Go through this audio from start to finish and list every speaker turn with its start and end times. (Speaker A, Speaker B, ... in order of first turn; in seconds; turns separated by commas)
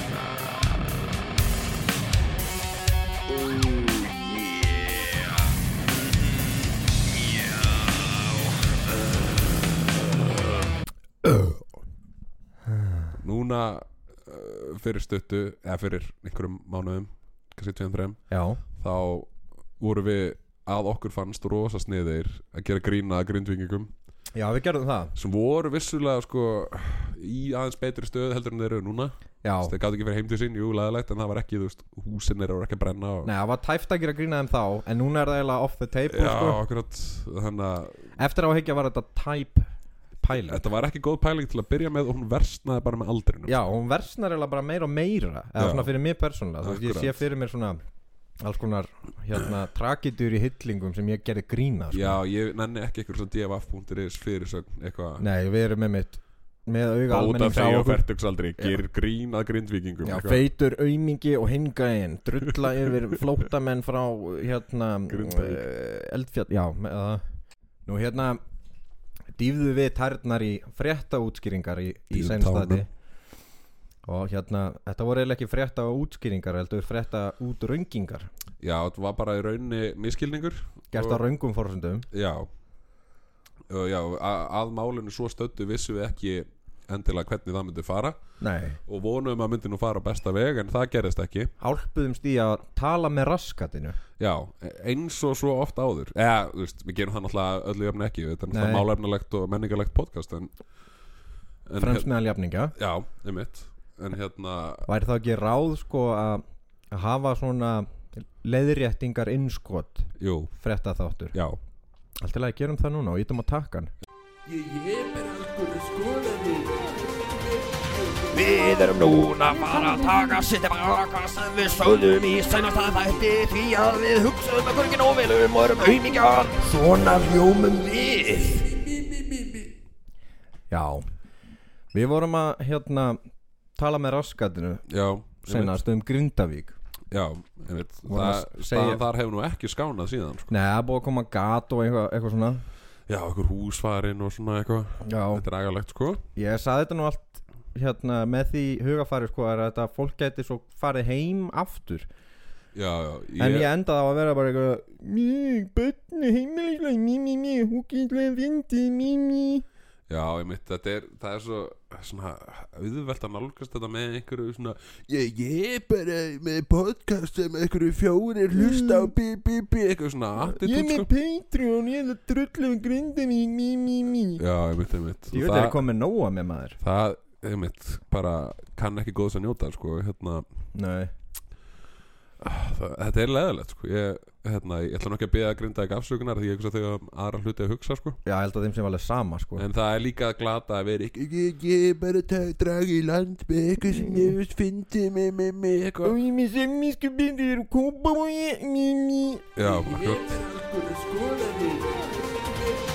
Speaker A: 3.3-5.5, Speaker A: 7.1-9.2, Speaker B: 13.2-18.2, Speaker C: 18.3-18.6, Speaker B: 18.8-23.9, Speaker C: 24.3-25.1, Speaker B: 25.1-33.3, Speaker C: 29.4-29.7, Speaker C: 33.2-36.6, Speaker B: 36.1-38.1, Speaker C: 38.2-39.7, Speaker C: 40.2-40.6, Speaker B: 40.4-43.6, Speaker C: 43.5-47.8, Speaker B: 45.6-45.9, Speaker B: 46.6-47.2, Speaker C: 48.4-52.2, Speaker B: 51.9-55.2, Speaker C: 55.2-58.0, Speaker B: 57.1-60.4, Speaker C: 60.0-67.2, Speaker B: 65.1-65.6, Speaker C: 67.9-68.4, Speaker C: 69.4-72.9, Speaker B: 72.1-72.8, Speaker C: 74.0-78.3, Speaker B: 78.6-81.2, Speaker C: 80.9-82.1, Speaker B: 82.1-82.5, Speaker B: 83.7-88.2, Speaker C: 88.4-88.8, Speaker B: 88.8-91.5, Speaker C: 91.6-94.0, Speaker B: 94.2-100.5, Speaker C: 98.5-98.8, Speaker B: 101.7-102.1, Speaker C: 101.8-102.7, Speaker B: 102.8-104.8, Speaker C: 104.9-111.3, Speaker B: 110.2-110.5, Speaker C: 112.2-113.9, Speaker A: 114.5-116.2, Speaker A: 118.2-128.9, Speaker C: 130.7-131.1, Speaker C: 131.9-133.2, Speaker C: 133.8-134.8, Speaker B: 134.9-135.8, Speaker C: 135.5-136.7, Speaker B: 137.1-140.5, Speaker C: 138.1-139.0, Speaker C: 140.5-142.6, Speaker B: 143.1-146.2, Speaker C: 145.0-145.4, Speaker C: 146.3-152.1, Speaker B: 152.7-153.7, Speaker C: 153.4-159.6, Speaker B: 160.1-171.1, Speaker C: 168.5-169.1, Speaker C: 170.4-174.4, Speaker B: 174.4-175.8, Speaker C: 175.3-176.8, Speaker B: 176.8-180.4, Speaker C: 180.7-181.1, Speaker B: 182.4-188.2, Speaker C: 188.2-189.6, Speaker B: 189.6-196.1, Speaker C: 193.9-194.3, Speaker C: 196.0-199.5, Speaker B: 199.6-200.4, Speaker A: 200.4-201.9